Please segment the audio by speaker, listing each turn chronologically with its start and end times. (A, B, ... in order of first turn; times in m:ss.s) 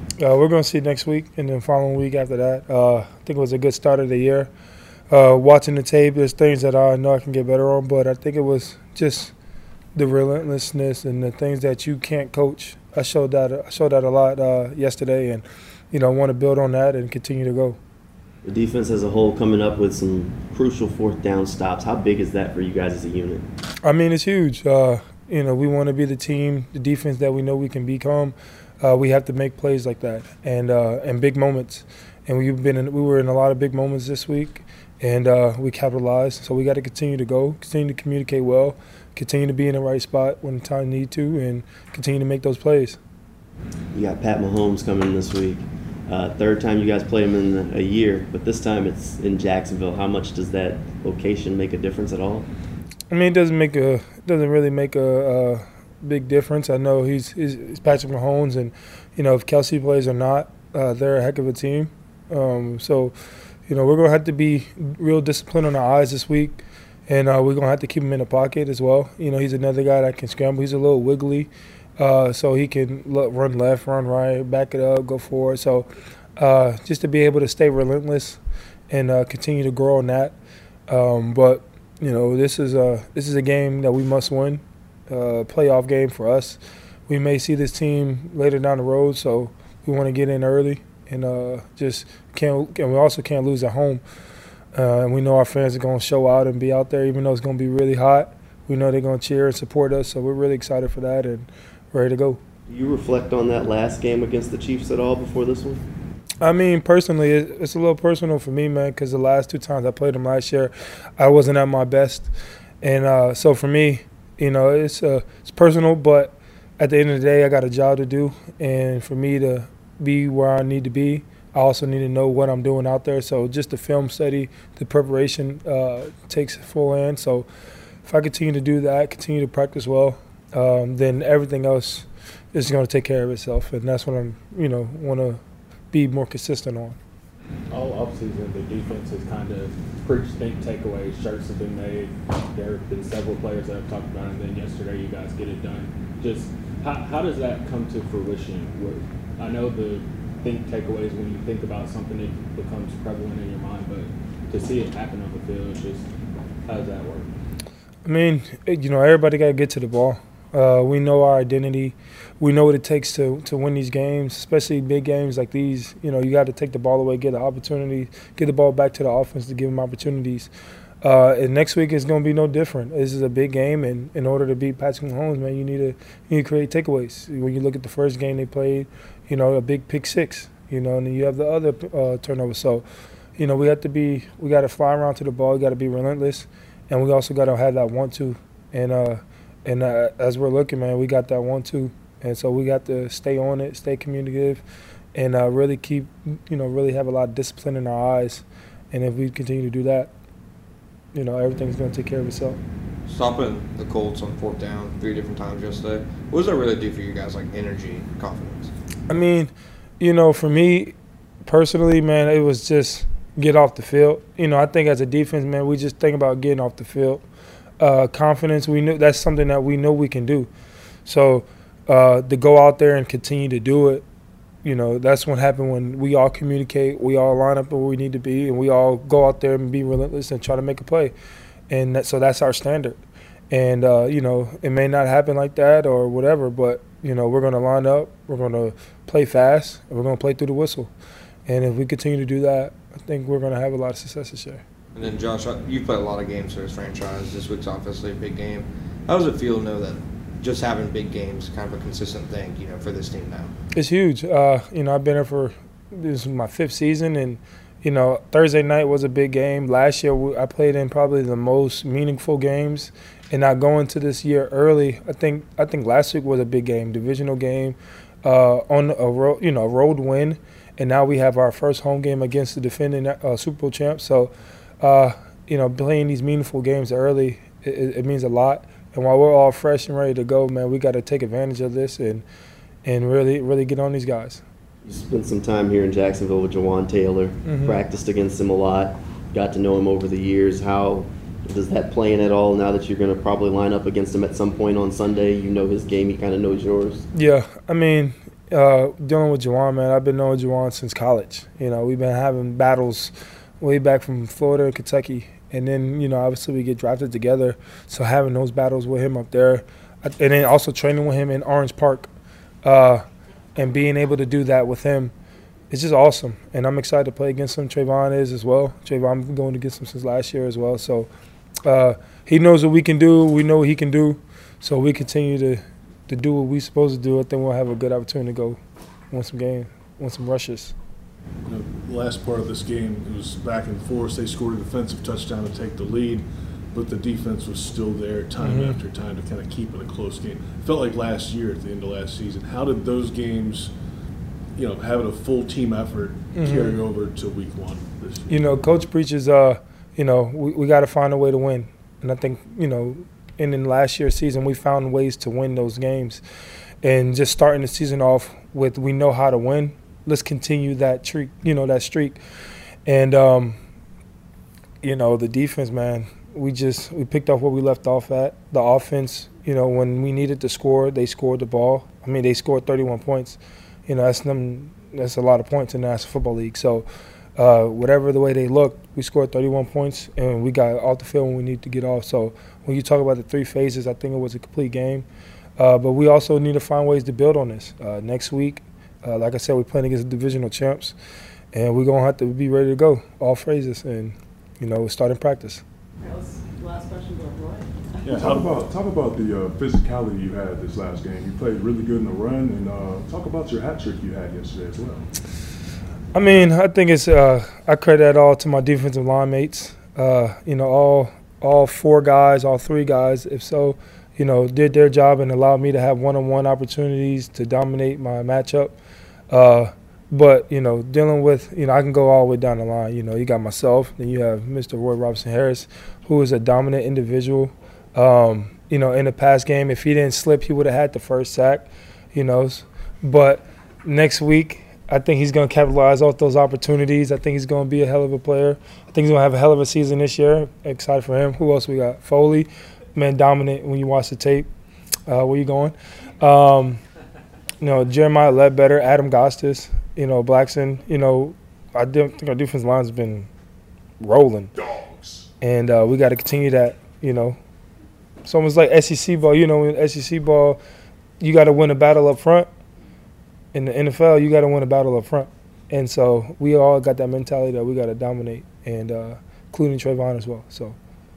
0:00.2-0:04.5 A
0:05.1-0:09.3 A
0:10.0-0:17.8 A
0:18.4-0:23.5 B
0:23.8-0:43.0 A
0:43.9-0:52.5 B
0:53.1-1:03.2 A
1:03.7-1:20.4 A
1:20.9-1:34.0 A
1:34.7-1:42.4 A
1:42.7-1:45.8 B
1:46.4-2:07.5 A
2:08.0-2:15.4 A
2:15.9-2:17.0 A
2:17.7-2:36.0 C
2:36.7-2:37.3 C
2:38.0-2:50.5 A
2:51.0-3:02.8 A
3:03.4-3:14.6 A
3:15.2-3:20.1 A
3:21.1-3:22.6 A
3:23.1-3:28.7 D
3:29.1-3:37.2 A
3:37.8-3:40.5 A
3:41.0-3:44.0 A
3:44.6-3:51.1 A
3:51.7-3:53.0 A
3:53.5-4:00.9 A
4:01.5-4:04.6 A
4:05.0-4:13.5 D
4:13.7-4:42.2 A
4:42.8-4:44.4 A
4:44.8-4:57.1 B
4:47.5-4:47.8 A
4:57.1-5:12.1 A
5:12.6-5:13.0 A
5:13.6-5:15.1 A
5:15.7-5:21.1 A
5:21.6-5:28.6 A
5:29.1-5:30.7 A
5:31.4-5:43.7 E
5:38.4-5:38.8 A
5:44.6-5:48.5 E
5:46.4-5:46.8 A
5:48.3-5:56.2 A
5:56.8-6:02.2 A
6:02.9-6:03.6 A
6:04.8-6:25.1 A
6:25.6-6:31.0 A
6:31.5-6:35.6 A
6:36.0-6:38.1 F
6:38.0-6:38.5 E
6:38.1-6:45.1 G
6:46.1-6:58.8 A
6:59.3-7:24.5 A
7:25.1-7:26.8 A
7:27.6-7:33.3 A
7:34.0-7:34.5 A
7:34.6-7:35.3 G
7:35.4-7:37.4 A
7:38.2-7:40.6 A
7:41.2-7:42.5 A
7:43.5-7:50.8 A